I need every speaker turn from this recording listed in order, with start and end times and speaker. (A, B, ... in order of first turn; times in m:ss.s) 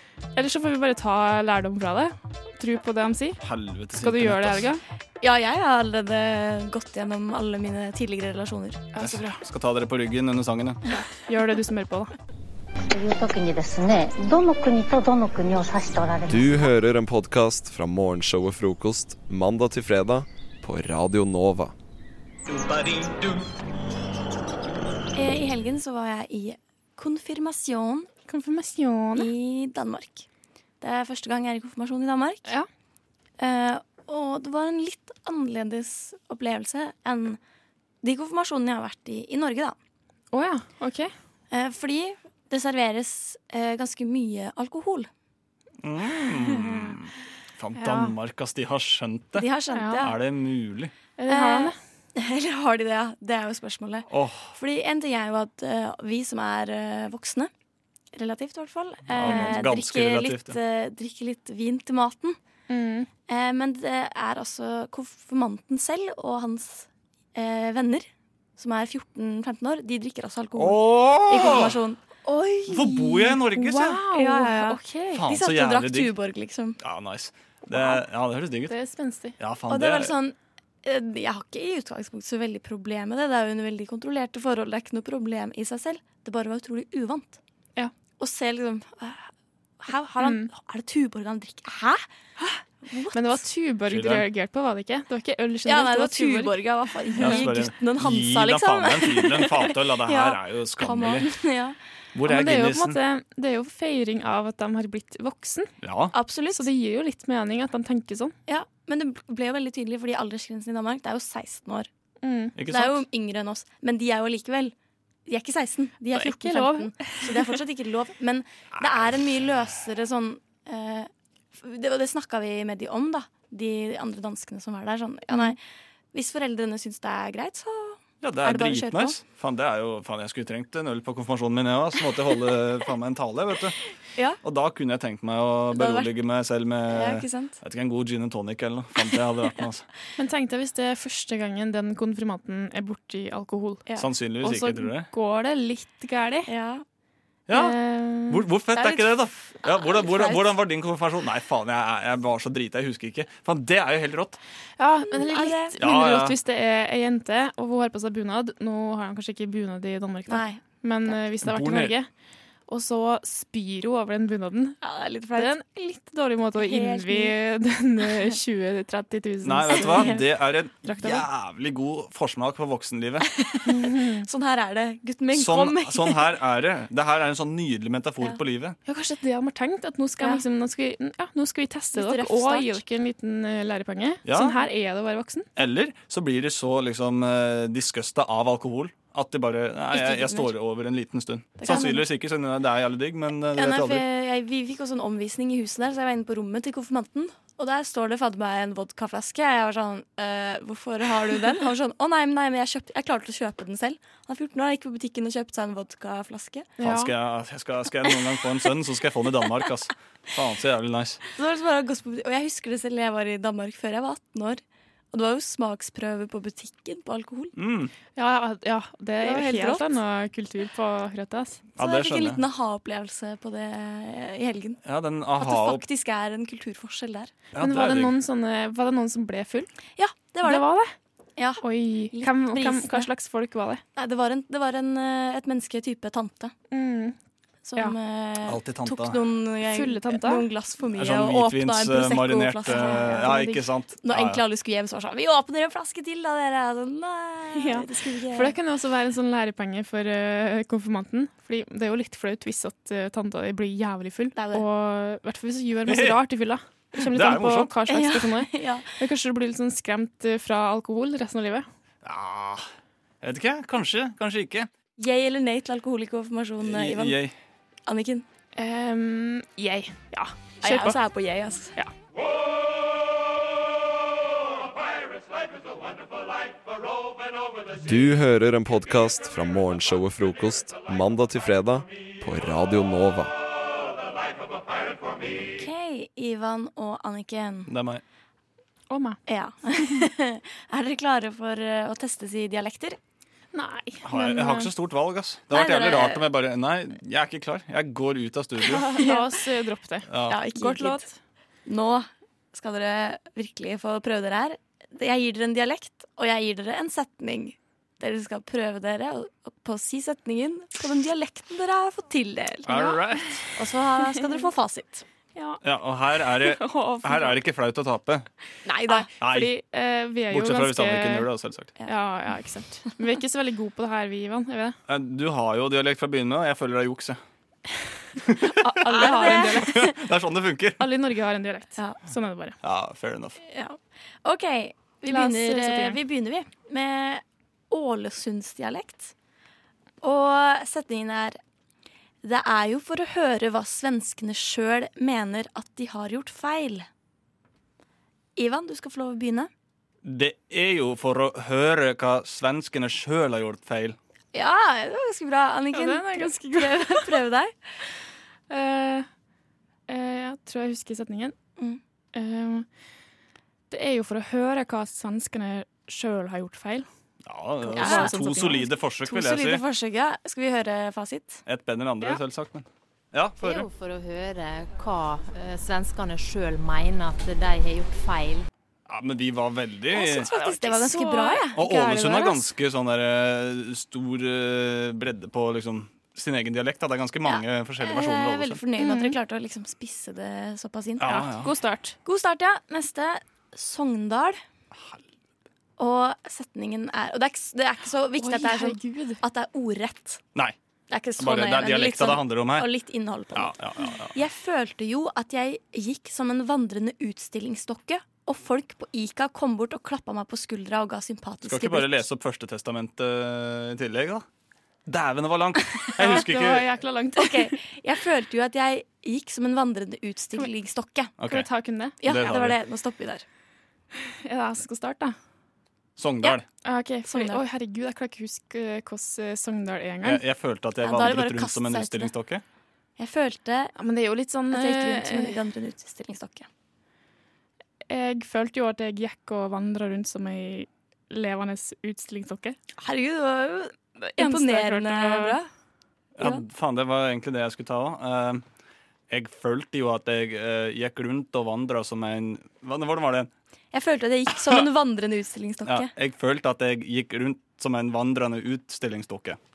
0:00.3-0:03.4 A
0:03.4-0:04.7 B
0:04.0-0:04.8 A
0:05.2-0:09.0 C
0:08.9-0:09.4 A
0:08.9-0:10.8 B
0:11.0-0:12.1 A
0:12.9-0:16.5 D
0:16.3-0:21.7 E
0:25.1-0:28.1 C
0:28.3-0:29.3 A
0:29.2-0:30.2 C
0:30.8-0:32.5 C
0:33.4-0:37.4 C
0:38.0-0:39.8 C
0:40.3-0:41.1 A
0:41.5-0:45.1 C
0:45.8-0:50.9 B
0:47.8-0:48.1 A
0:49.3-0:50.1 C
0:49.7-0:50.1 A
0:51.1-0:51.8 A
0:51.3-0:57.5 C
0:54.1-0:54.5 B
0:58.1-1:02.4 C
0:59.0-1:00.6 B
0:59.2-0:59.7 A
1:02.7-1:03.1 A
1:03.2-1:13.2 C
1:10.6-1:11.8 B
1:12.6-1:14.0 B
1:12.8-1:15.2 A
1:14.1-1:16.8 C
1:15.1-1:16.2 B
1:16.8-1:18.7 B
1:17.7-1:18.0 C
1:18.7-1:19.4 A
1:19.4-1:20.1 B
1:19.7-1:27.4 C
1:28.2-1:29.3 C
1:29.8-1:33.4 C
1:30.2-1:30.5 A
1:33.1-1:36.6 A
1:33.9-1:34.2 B
1:35.6-1:41.8 C
1:37.2-1:37.6 A
1:37.2-1:41.3 B
1:42.1-1:43.0 B
1:42.2-1:45.7 A
1:45.8-1:46.2 B
1:46.1-1:46.7 C
1:46.5-1:48.3 A
1:48.5-1:51.9 C
1:52.2-1:52.6 A
1:52.5-1:53.0 B
1:52.6-1:54.7 C
1:55.3-2:05.6 C
1:56.1-1:57.5 A
2:06.1-2:09.2 C
2:08.2-2:13.7 B
2:14.4-2:19.8 B
2:15.7-2:16.1 C
2:16.9-2:17.6 C
2:20.2-2:23.9 A
2:23.9-2:25.1 B
2:24.4-2:26.5 A
2:26.4-2:26.8 C
2:27.5-2:27.8 B
2:27.5-2:28.4 A
2:28.3-2:34.4 B
2:28.7-2:30.6 C
2:34.8-2:42.1 A
2:35.0-2:35.8 C
2:35.8-2:36.4 B
2:40.3-2:41.1 C
2:41.4-2:41.9 B
2:42.7-2:44.8 A
2:44.8-2:45.5 C
2:45.3-2:50.2 A
2:46.6-2:47.3 C
2:49.4-2:53.2 B
2:49.6-2:50.2 C
2:50.8-2:51.2 A
2:53.4-2:56.3 C
2:53.7-2:54.2 A
2:55.3-2:58.8 B
2:58.8-3:05.5 A
3:01.9-3:02.8 C
3:04.2-3:04.6 B
3:05.6-3:14.0 B
3:09.9-3:10.5 C
3:10.1-3:10.4 A
3:11.6-3:12.1 C
3:13.5-3:26.7 C
3:26.8-3:31.2 B
3:26.8-3:27.1 A
3:31.3-3:37.5 C
3:37.6-3:37.9 B
3:38.1-3:41.7 A
3:39.2-3:39.9 C
3:41.7-3:42.4 B
3:41.8-3:44.8 C
3:44.8-3:45.8 B
3:45.4-3:47.3 C
3:47.5-3:48.2 B
3:47.6-3:49.7 A
3:50.0-3:50.7 C
3:50.4-3:50.9 A
3:51.4-3:53.1 C
3:51.6-3:53.8 A
3:54.0-3:56.5 C
3:56.7-3:57.2 A
3:57.6-4:08.5 C
3:58.4-3:59.2 B
3:59.6-4:00.4 A
4:00.9-4:04.4 B
4:02.6-4:03.6 A
4:07.6-4:21.6 A
4:14.3-4:14.6 C
4:15.8-4:16.2 B
4:17.0-4:17.9 B
4:17.8-4:18.9 C
4:22.0-4:22.6 B
4:23.2-4:24.7 B
4:25.0-4:27.2 C
4:26.6-4:27.3 B
4:27.8-4:28.2 C
4:28.6-4:31.0 A
4:30.6-4:31.7 C
4:37.8-4:43.3 E
4:45.6-4:47.7 C
4:47.7-4:48.0 B
4:48.9-4:49.2 A
4:49.3-4:53.0 C
4:53.5-4:54.7 A
4:54.0-4:58.9 B
4:55.5-4:56.2 C
4:58.6-5:01.2 A
4:58.9-4:59.4 C
5:00.1-5:00.4 B
5:00.2-5:01.0 C
5:01.6-5:13.0 C
5:12.6-5:13.5 B
5:12.7-5:13.0 A
5:13.5-5:15.0 C
5:14.1-5:14.4 A
5:15.3-5:15.6 A
5:15.6-5:18.2 B
5:16.4-5:17.4 A
5:18.6-5:19.1 C
5:18.8-5:21.3 A
5:19.1-5:19.5 B
5:20.3-5:21.7 B
5:21.8-5:24.7 A
5:24.9-5:27.2 B
5:28.2-5:30.8 B
5:28.4-5:29.9 A
5:28.8-5:29.9 C
5:30.8-5:32.6 A
5:31.8-5:32.0 C
5:32.6-5:33.4 B
5:33.4-5:39.1 C
5:35.0-5:36.0 A
5:40.0-5:41.4 C
5:42.2-5:46.9 C
5:48.4-5:49.5 C
5:50.0-5:54.0 B
5:54.3-5:57.5 C
5:55.7-5:57.2 A
5:58.5-5:59.1 A
5:59.9-6:01.3 A
6:02.1-6:02.6 A
6:03.7-6:06.8 A
6:07.2-6:09.6 B
6:07.6-6:08.7 A
6:07.7-6:08.2 C
6:09.0-6:11.4 C
6:11.4-6:13.7 B
6:13.4-6:18.5 F
6:18.9-6:20.4 B
6:19.9-6:22.4 C
6:20.2-6:22.4 A
6:21.5-6:28.7 B
6:27.2-6:31.3 C
6:28.8-6:29.1 A
6:31.0-6:31.5 B
6:31.0-6:32.0 A
6:32.0-6:34.4 C
6:35.8-6:40.2 C
6:38.2-6:39.2 A
6:40.9-6:52.0 C
6:41.2-6:42.7 B
6:43.3-6:44.1 B
6:51.4-6:54.2 B
6:54.9-6:56.7 B
6:56.0-6:57.5 A
6:57.2-7:01.1 C
7:01.2-7:01.5 B
7:01.2-7:02.3 A
7:02.0-7:03.2 C
7:02.0-7:02.6 B
7:04.1-7:05.1 A
7:06.0-7:06.4 B
7:06.6-7:10.2 A
7:07.0-7:07.4 C
7:10.0-7:12.4 B
7:10.8-7:12.1 C
7:13.0-7:13.7 C
7:13.8-7:15.4 A
7:14.5-7:16.5 C
7:17.9-7:22.6 A
7:22.8-7:25.5 C
7:24.1-7:25.4 A
7:26.2-7:28.4 B
7:29.1-7:33.3 B
7:33.7-7:35.9 C
7:34.4-7:34.6 B
7:35.6-7:39.4 B